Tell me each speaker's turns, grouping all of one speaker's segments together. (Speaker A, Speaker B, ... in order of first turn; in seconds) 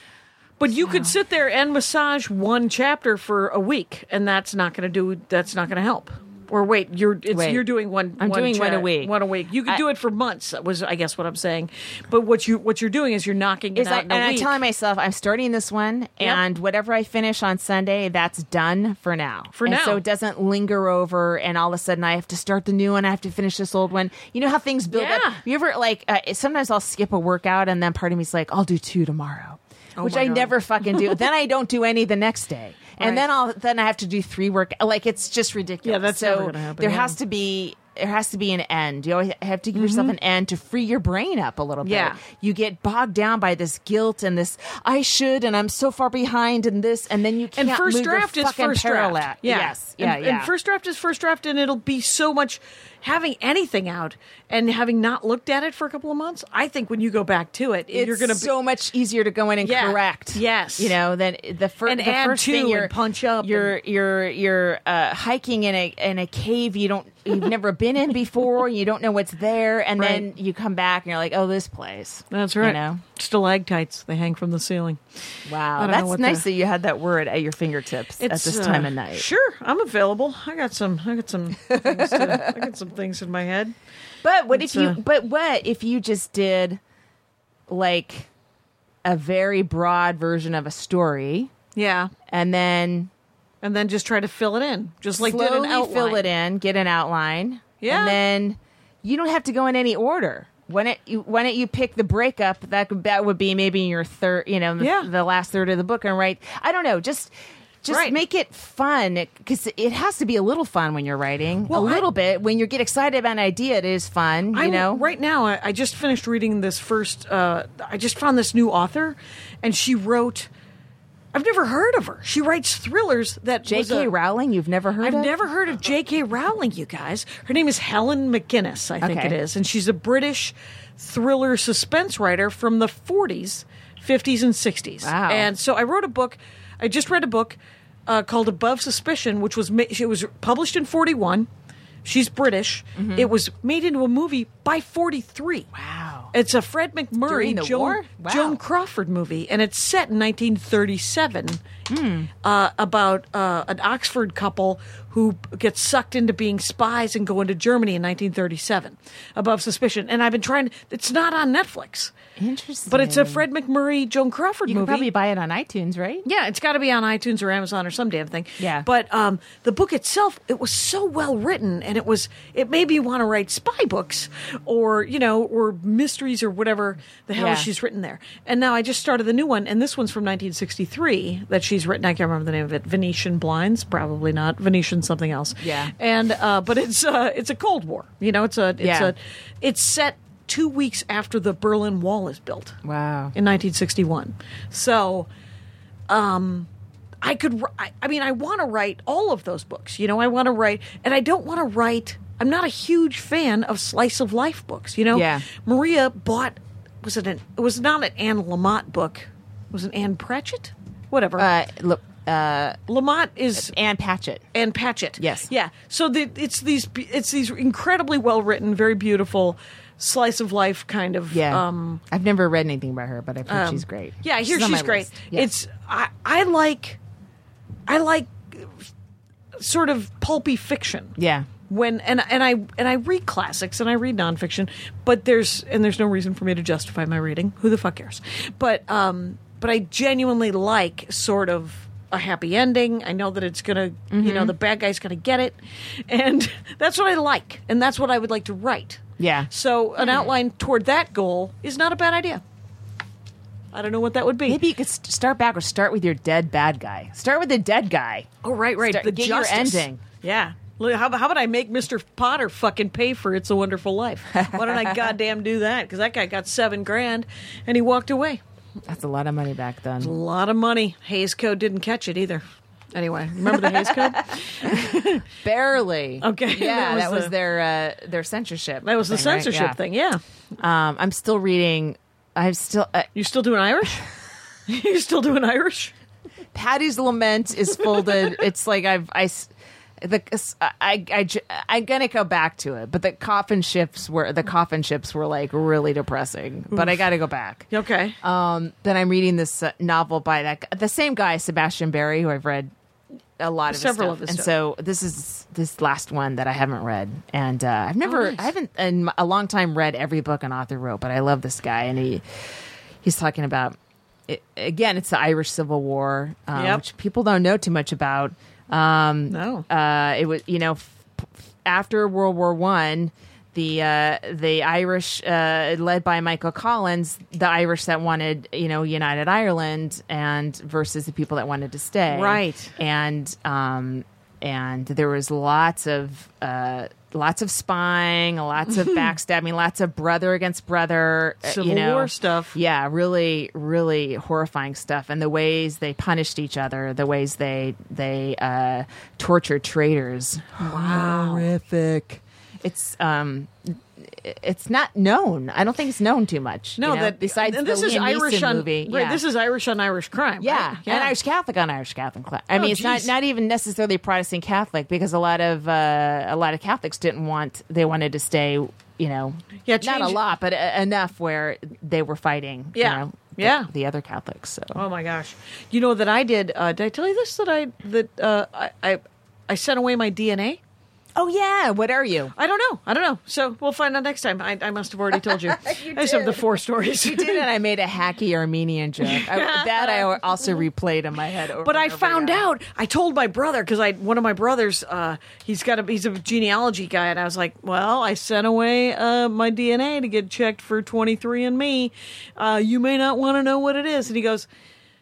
Speaker A: 0.6-14.6, 19.5-20.0, 24.9-25.4, 30.0-31.1, 33.0-33.2, 35.8-37.2, 39.7-40.1, 41.8-42.2, 47.5-58.5, 59.6-61.0, 61.9-63.8, 70.0-70.3, 72.3-75.0, 75.8-76.4, 78.2-83.7, 84.5-85.0, 91.8-92.1, 93.6-96.3, 97.8-98.2, 104.8-105.1, 107.9-108.2, 111.7-112.1, 114.5-120.5, 121.3-124.1, 125.0-141.5, 142.0-145.7, 146.3-151.6, 152.4-162.1, 162.9-165.1, 166.2-192.8, 193.3-195.3, 196.1-196.7, 197.2-211.5, 212.9-213.7, 214.5-222.0, 223.5-227.0, 227.9-228.9, 229.6-231.1, 231.7-252.4, 253.7-254.6, 258.4-268.4, 270.0-275.2, 276.2-277.3, 278.8-280.2, 283.1-284.0, 284.7-285.9, 296.7-297.0, 297.7-298.2, 303.7-304.5, 308.0-308.5, 316.5-316.8, 319.3-319.6, 332.1-332.7, 341.4-342.6, 350.6-351.5, 356.8-361.1, 362.5-363.1, 369.6-370.2, 372.7-373.7, 374.7-380.6, 382.4-387.4, 389.0-390.6, 391.6-404.5
Speaker B: 0.8-1.1, 7.3-9.8, 13.7-50.5, 57.9-73.0, 75.5-79.2, 81.7-82.6, 84.2-86.8, 87.7-88.3, 89.0-91.5, 92.3-93.1, 95.2-115.1, 123.7-125.3, 129.0-129.4, 135.0-135.5, 142.9-143.3, 145.7-146.3, 147.2-148.6, 151.9-152.3, 162.4-163.4, 164.7-166.2, 168.6-168.9, 177.3-177.7, 185.6-185.9, 188.8-189.1, 192.8-193.3, 205.1-205.4, 211.4-212.8, 213.6-214.4, 215.2-215.5, 221.3-225.5, 231.2-231.5, 244.1-244.5, 249.2-250.3, 254.4-260.0, 264.4-265.1, 268.9-270.1, 273.4-279.8, 280.6-283.1, 286.5-297.7, 298.2-302.7, 303.4-313.8, 314.3-359.2, 360.4-374.8, 381.1-382.3, 385.3-386.4, 387.0-392.4